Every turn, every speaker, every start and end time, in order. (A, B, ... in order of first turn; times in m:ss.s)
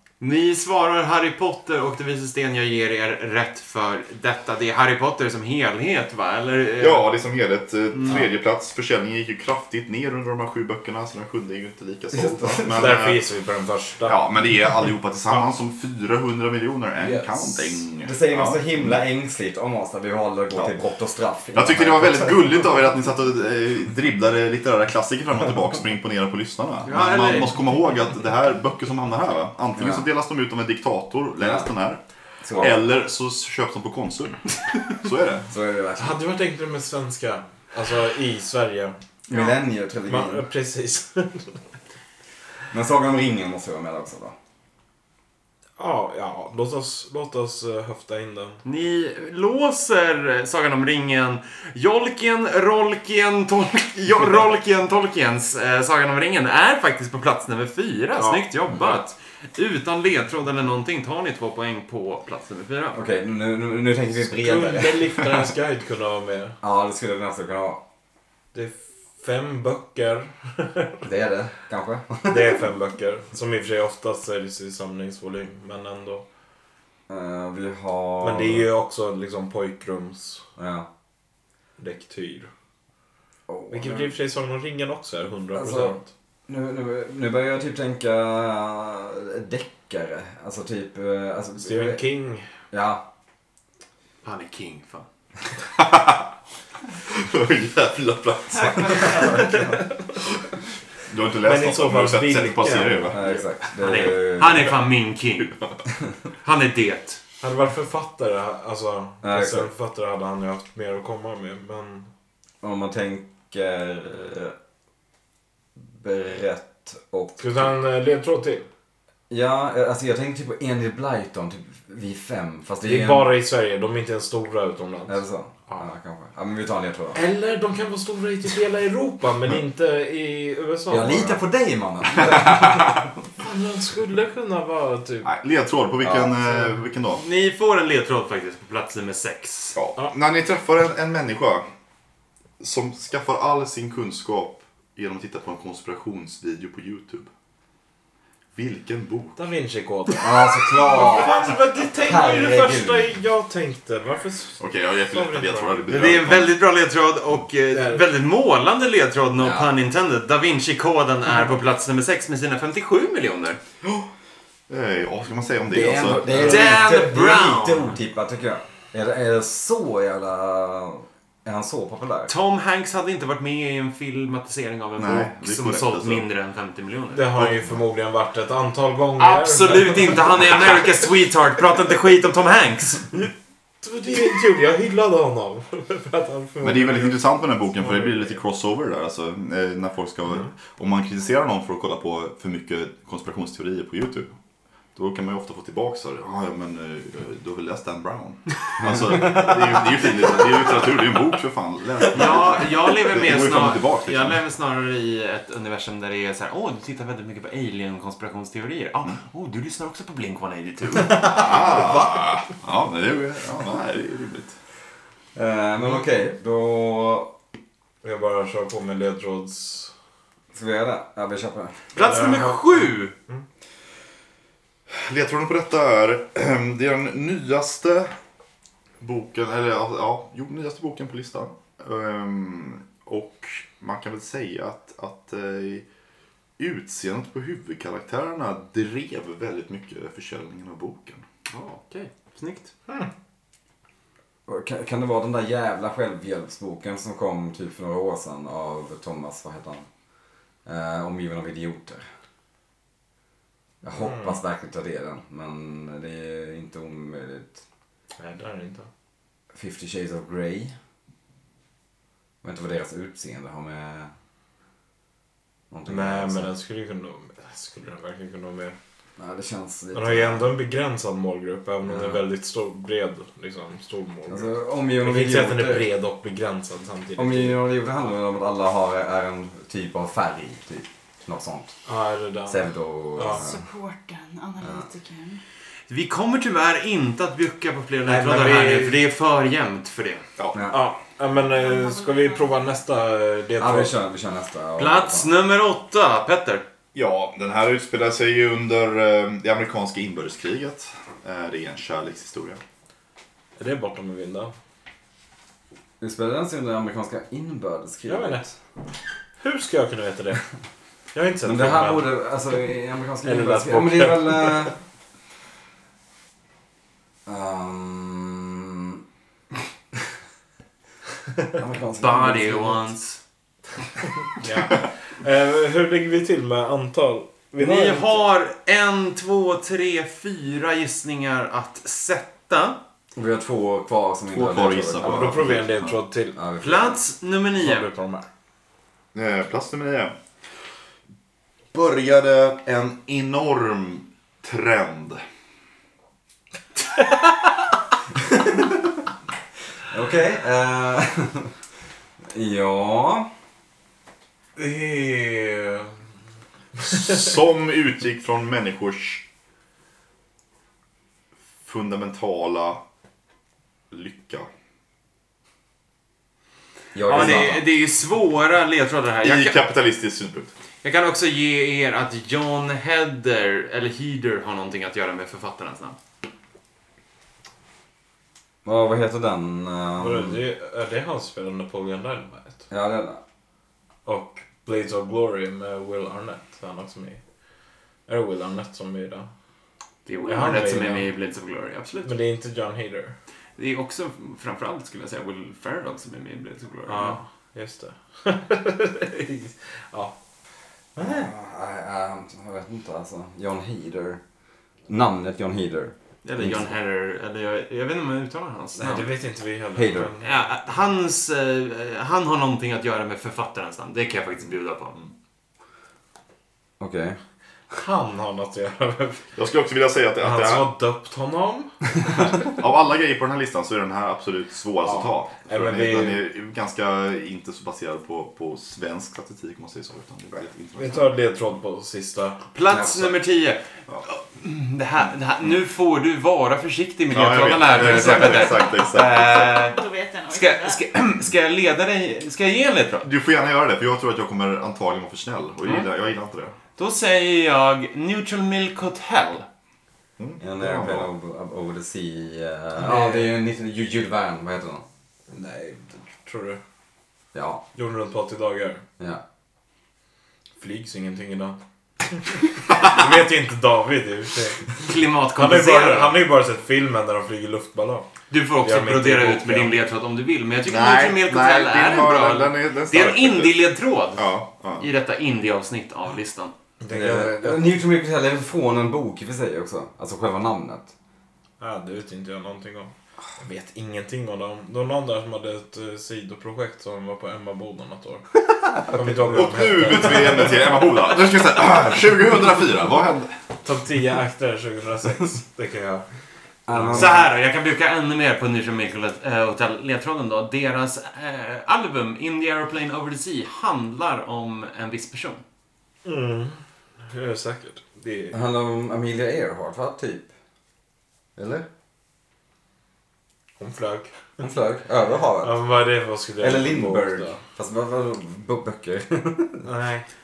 0:00.2-0:07.1 A
0:06.8-0:13.2 B
0:12.1-0:12.9 C
0:12.7-0:14.2 D
0:14.0-0:19.0 B
0:17.0-0:17.7 D
0:18.0-0:22.4 C
0:21.5-0:32.0 B
0:26.8-0:27.7 A
0:29.8-0:30.0 C
0:31.4-0:31.7 C
0:32.4-0:32.8 C
0:32.6-0:34.4 B
0:34.9-0:35.4 B
0:35.5-0:36.2 C
0:36.0-0:41.6 D
0:39.3-0:40.4 C
0:42.7-0:44.3 C
0:45.8-0:48.6 D
0:48.6-1:03.0 A
0:58.1-0:58.6 D
1:02.9-1:05.4 C
1:04.1-1:06.6 D
1:06.6-1:07.8 C
1:08.5-1:10.9 D
1:11.0-1:12.7 C
1:12.3-1:16.2 D
1:17.1-1:18.7 C
1:18.2-1:20.4 D
1:20.6-1:20.9 C
1:21.8-1:22.5 D
1:23.5-1:24.1 C
1:23.7-1:26.1 D
1:25.5-1:26.0 C
1:26.5-1:32.0 C
1:31.6-1:32.4 D
1:32.7-1:33.0 C
1:34.2-1:35.0 A
1:35.8-1:36.3 B
1:37.1-1:39.3 B
1:39.0-1:39.8 C
1:39.2-1:40.0 D
1:41.1-1:43.4 B
1:41.4-1:43.2 D
1:42.6-1:44.7 C
1:43.8-1:45.6 A
1:46.4-1:47.2 A
1:47.4-1:52.1 D
1:49.2-1:49.7 C
1:52.6-1:54.5 C
1:56.0-1:57.7 C
1:57.4-1:58.6 D
1:59.3-2:03.3 C
2:02.8-2:05.2 D
2:05.1-2:07.2 C
2:07.1-2:11.4 D
2:10.9-2:13.0 C
2:12.2-2:12.5 B
2:13.4-2:15.3 D
2:15.2-2:17.2 B
2:17.1-2:19.8 A
2:19.7-2:21.6 B
2:22.6-2:27.3 B
2:28.5-2:29.4 B
2:29.4-2:35.8 D
2:30.1-2:33.1 C
2:34.6-2:36.5 B
2:35.9-2:43.6 A
2:37.7-2:38.0 D
2:39.4-2:39.7 C
2:44.7-2:46.8 B
2:45.7-2:52.3 C
2:46.4-2:48.0 A
2:52.3-2:57.5 A
2:55.0-2:56.2 B
2:57.1-3:00.6 D
2:59.2-3:03.3 A
3:03.8-3:08.4 D
3:06.6-3:14.3 B
3:14.9-3:24.4 B
3:18.8-3:19.5 C
3:22.1-3:31.3 A
3:31.2-3:34.5 B
3:35.3-3:37.3 C
3:38.0-3:39.9 D
3:40.5-3:42.0 C
3:41.9-3:43.1 A
3:42.0-3:43.4 D
3:44.9-3:48.1 B
3:49.0-3:55.8 B
3:56.6-4:01.2 B
4:01.5-4:02.7 A
4:04.4-4:09.9 C
4:10.6-4:12.0 C
4:13.8-4:17.6 C
4:13.9-4:14.4 D
4:18.2-4:18.9 D
4:19.5-4:20.8 C
4:22.4-4:24.1 C
4:25.7-4:26.5 C
4:25.8-4:28.8 D
4:29.2-4:30.5 C
4:29.9-4:37.6 D
4:31.8-4:32.2 C
4:34.3-4:35.9 C
4:37.2-4:41.7 C
4:41.8-4:43.4 D
4:42.4-4:43.6 C
4:43.2-4:45.4 E
4:45.9-4:50.2 A
4:48.0-4:49.0 D
4:50.4-4:50.7 B
4:50.5-4:50.8 C
4:50.7-4:53.9 D
4:51.5-4:52.8 E
4:53.6-4:55.3 C
4:54.8-4:56.6 A
4:56.9-5:02.6 B
5:03.6-5:04.5 D
5:06.0-5:08.5 C
5:08.0-5:08.5 D
5:09.4-5:10.5 D
5:11.1-5:12.1 D
5:11.4-5:14.7 C
5:13.2-5:14.7 D
5:17.2-5:19.0 C
5:21.5-5:22.9 C
5:22.0-5:23.2 A
5:24.4-5:28.2 D
5:27.6-5:32.8 A
5:33.2-5:35.5 C
5:34.3-5:36.0 B
5:35.0-5:36.4 D
5:36.3-5:37.0 C
5:36.6-5:37.9 A
5:37.6-5:38.3 D
5:39.1-5:40.1 B
5:41.7-5:45.2 B
5:49.9-5:51.5 C
5:52.3-5:53.3 C
5:54.6-5:55.9 D
5:56.8-5:57.1 D
5:56.9-5:59.2 B
6:01.6-6:02.8 B
6:03.9-6:04.5 B
6:06.9-6:07.6 C
6:07.0-6:09.7 A
6:07.2-6:07.5 D
6:09.2-6:10.5 B
6:10.8-6:16.0 A
6:18.6-6:20.4 C
6:20.0-6:22.6 D
6:22.7-6:23.2 C
6:24.0-6:27.2 D
6:28.1-6:29.3 D
6:30.0-6:32.2 A
6:30.2-6:31.1 D
6:32.0-6:33.2 D
6:33.6-6:37.2 A
6:36.9-6:40.1 D
6:41.0-6:41.3 D
6:41.0-6:44.2 C
6:44.9-6:46.8 C
6:46.2-6:49.1 A
6:48.8-6:50.4 D
6:49.7-6:50.1 C
6:50.2-6:55.0 A
6:56.8-6:57.2 C
6:57.7-6:59.2 D
6:59.4-7:00.7 B
7:00.2-7:01.7 D
7:02.3-7:11.1 B
7:05.4-7:06.2 D
7:10.7-7:12.4 D
7:12.5-7:23.1 A
7:12.7-7:13.1 C
7:17.1-7:19.6 B
7:18.3-7:20.8 E
7:23.0-7:26.5 B
7:26.8-7:29.4 A
7:30.2-7:31.1 B
7:30.4-7:34.8 C
7:32.8-7:33.3 D
7:35.3-7:36.6 D
7:37.3-7:37.6 C
7:37.7-7:38.8 D
7:40.6-7:41.6 D
7:42.3-7:44.7 D
7:44.8-7:46.2 A
7:45.3-7:48.1 D
7:48.3-7:56.5 A
7:48.6-7:49.8 D
7:50.6-7:53.6 B
7:54.1-7:54.8 B
7:56.8-7:57.7 D
7:56.9-8:00.9 C
8:01.6-8:08.2 D
8:08.7-8:09.5 C
8:08.9-8:10.7 D
8:09.3-8:13.3 B
8:13.6-8:16.0 D
8:16.7-8:17.2 C
8:16.7-8:17.2 D
8:16.9-8:25.4 A
8:26.0-8:28.3 D
8:28.3-8:30.3 C
8:31.4-8:31.6 C
8:33.6-8:34.2 D
8:34.4-8:35.6 C
8:35.4-8:37.4 D
8:36.4-8:39.6 C
8:39.6-8:40.0 D